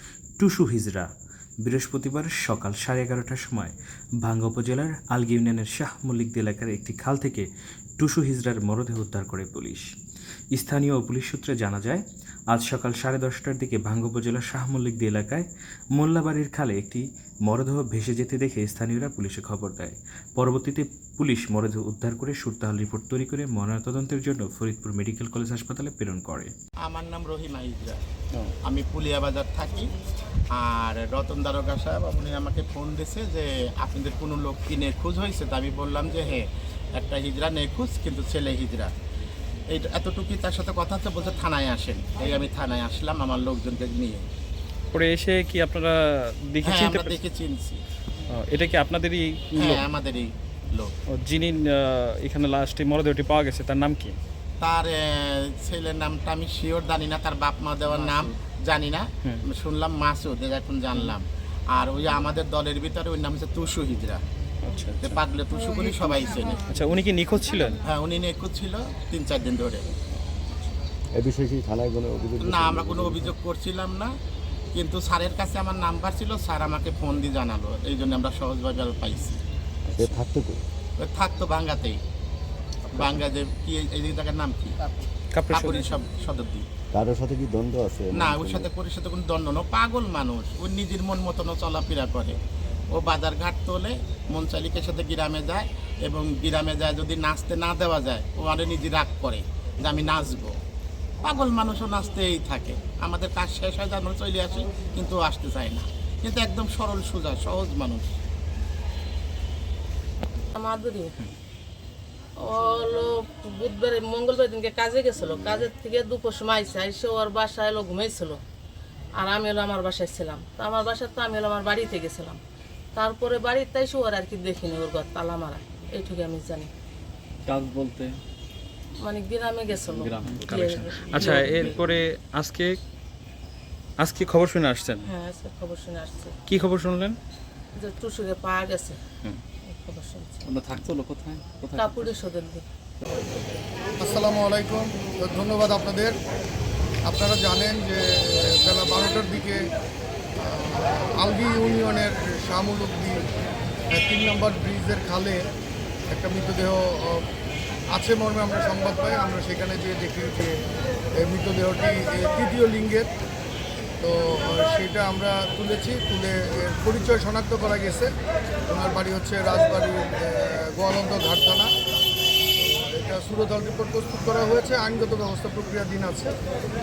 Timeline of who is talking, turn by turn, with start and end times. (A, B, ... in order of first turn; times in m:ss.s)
0:00.4-0:01.1 A
0:01.6-0:07.5 A
0:08.0-0:09.9 A
0:10.5-0:26.5 A
0:26.8-0:28.0 B
0:28.6-0:29.9 B
0:30.5-0:38.9 B
0:39.7-0:44.2 B
0:44.9-0:47.2 C
0:46.6-0:47.8 B
0:48.3-0:49.8 C
0:49.6-0:50.9 B
0:51.1-0:54.2 C
0:54.6-1:04.2 B
1:04.6-1:05.2 C
1:05.0-1:06.6 B
1:06.7-1:07.8 C
1:07.8-1:09.9 B
1:11.2-1:13.3 D
1:12.4-1:14.1 B
1:14.7-1:19.4 B
1:19.9-1:20.6 D
1:21.0-1:22.0 B
1:22.9-1:24.8 B
1:25.3-1:25.9 C
1:25.5-1:26.6 B
1:26.9-1:28.7 D
1:28.1-1:32.4 B
1:32.9-1:40.5 B
1:41.2-1:48.1 B
1:50.5-1:51.2 E
1:52.4-1:58.4 E
1:59.2-2:02.4 E
2:02.9-2:06.7 E
2:07.5-2:08.2 F
2:09.0-2:11.8 E
2:09.8-2:11.8 F
2:10.2-2:12.8 C
2:14.0-2:15.1 C
2:15.0-2:16.4 E
2:16.5-2:17.2 C
2:17.8-2:19.0 E
2:19.6-2:20.5 E
2:20.5-2:22.1 F
2:21.7-2:22.6 E
2:24.0-2:26.2 G
2:27.0-2:29.6 G
2:30.4-2:33.2 G
2:33.9-2:35.5 G
2:36.1-2:37.2 G
2:37.9-2:40.6 G
2:41.1-2:43.1 G
2:44.0-2:48.1 G
2:48.7-2:51.7 G
2:52.5-2:56.4 G